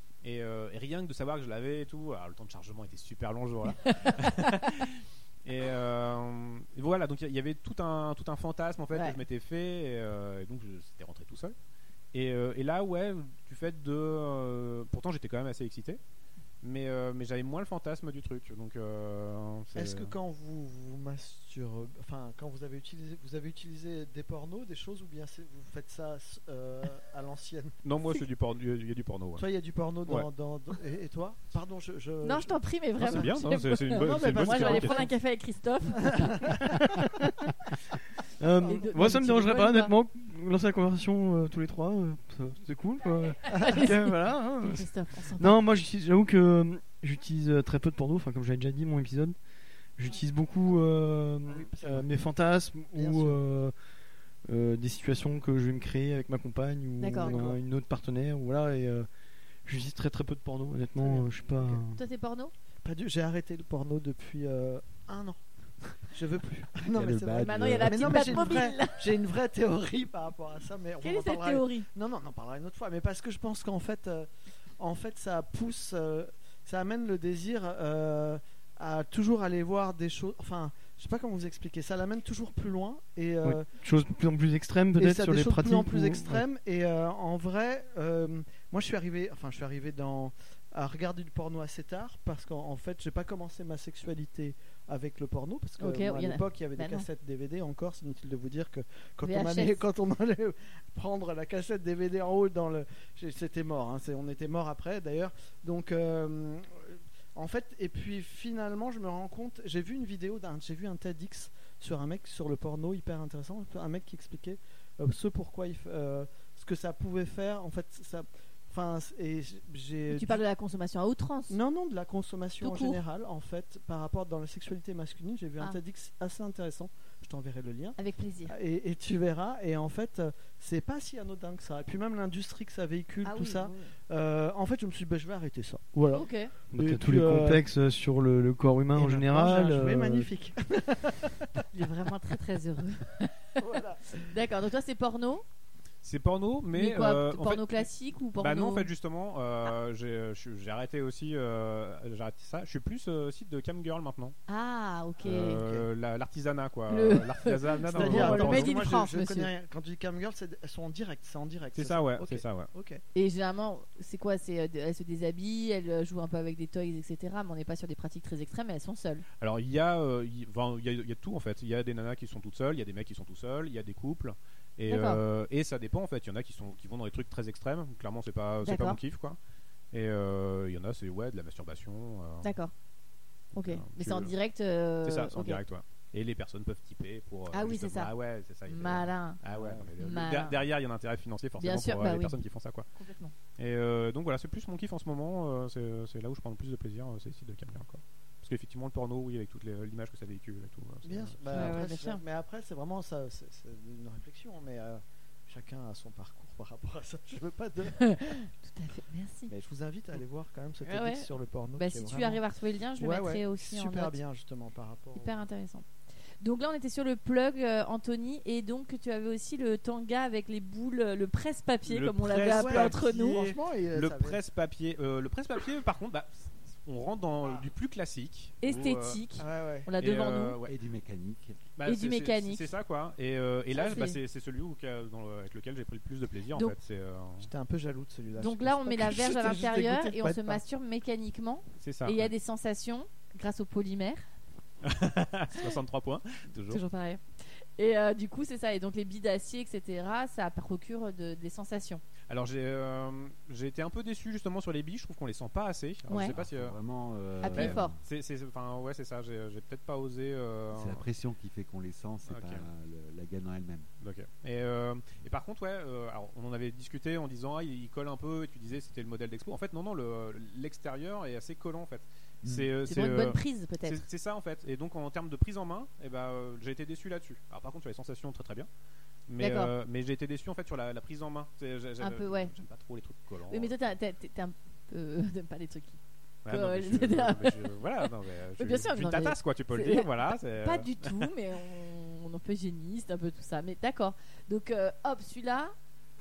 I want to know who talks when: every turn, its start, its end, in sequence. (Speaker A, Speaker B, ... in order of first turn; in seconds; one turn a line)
Speaker A: 0.2-11.6
Speaker B: 3.8-4.3
Speaker B: 8.9-9.2
Speaker A: 12.1-16.0
Speaker A: 16.6-20.1
Speaker C: 19.8-27.8
Speaker A: 27.8-29.4
Speaker C: 29.4-33.3
Speaker B: 32.2-36.6
Speaker A: 33.0-35.1
Speaker C: 33.9-35.1
Speaker C: 36.0-36.9
Speaker D: 36.6-37.3
Speaker D: 38.4-49.4
Speaker B: 38.6-39.9
Speaker B: 43.5-45.6
Speaker D: 50.0-53.7
Speaker C: 51.5-52.1
Speaker C: 53.0-53.4
Speaker D: 54.5-59.1
Speaker B: 57.0-57.4
Speaker C: 57.2-57.6
Speaker D: 59.7-62.0
Speaker C: 61.0-61.8
Speaker B: 61.9-62.5
Speaker C: 62.8-65.4
Speaker C: 66.0-74.3
Speaker E: 66.9-68.7
Speaker B: 67.4-69.1
Speaker B: 71.0-71.9
Speaker C: 74.8-83.7
Speaker D: 83.4-86.4
Speaker C: 85.0-120.4
Speaker B: 95.8-97.1
Speaker B: 99.2-99.8
Speaker B: 120.1-121.6
Speaker C: 121.5-137.6
Speaker B: 122.6-123.0
Speaker B: 128.0-128.6
Speaker B: 133.2-133.9
Speaker B: 136.1-136.5
Speaker D: 136.7-140.3
Speaker C: 139.0-141.6
Speaker B: 141.7-143.6
Speaker C: 143.6-144.3
Speaker B: 144.3-145.4
Speaker A: 146.0-154.4
Speaker B: 146.7-148.9
Speaker B: 154.5-155.6
Speaker A: 155.2-158.8
Speaker C: 155.3-155.9
Speaker B: 156.9-159.5
Speaker C: 157.9-163.0
Speaker A: 161.8-162.7
Speaker B: 163.2-169.2
Speaker A: 169.4-179.4
Speaker B: 174.9-175.2
Speaker B: 178.6-179.0
Speaker A: 179.9-182.5
Speaker B: 182.4-182.7
Speaker B: 183.5-185.6
Speaker A: 183.6-184.3
Speaker A: 185.0-192.9
Speaker B: 187.5-188.1
Speaker B: 188.7-189.4
Speaker C: 189.5-189.9
Speaker B: 190.0-190.6
Speaker B: 191.6-192.4
Speaker B: 192.9-193.3
Speaker A: 193.6-201.8
Speaker C: 201.1-208.1
Speaker B: 201.5-202.2
Speaker B: 208.0-209.5
Speaker C: 209.5-212.4
Speaker B: 210.8-214.2
Speaker C: 213.0-215.5
Speaker B: 215.2-215.9
Speaker B: 216.4-223.5
Speaker A: 221.9-229.2
Speaker C: 222.4-224.4
Speaker B: 228.6-230.6
Speaker C: 229.4-229.9
Speaker A: 230.0-230.8
Speaker E: 230.7-231.6
Speaker A: 231.8-237.5
Speaker B: 231.9-232.7
Speaker B: 233.7-234.2
Speaker C: 237.4-240.6
Speaker B: 238.4-244.2
Speaker A: 241.8-242.3
Speaker A: 244.8-246.8
Speaker B: 246.7-252.0
Speaker A: 252.3-256.8
Speaker B: 256.1-256.3
Speaker E: 256.1-258.0
Speaker B: 257.4-257.9
Speaker A: 257.5-261.1
Speaker E: 260.7-263.9
Speaker A: 262.3-262.7
Speaker A: 264.0-278.7
Speaker E: 272.4-272.7
Speaker B: 272.9-274.1
Speaker A: 279.3-283.8
Speaker B: 279.4-279.7
Speaker B: 282.0-282.5
Speaker B: 283.5-295.7
Speaker A: 286.4-291.3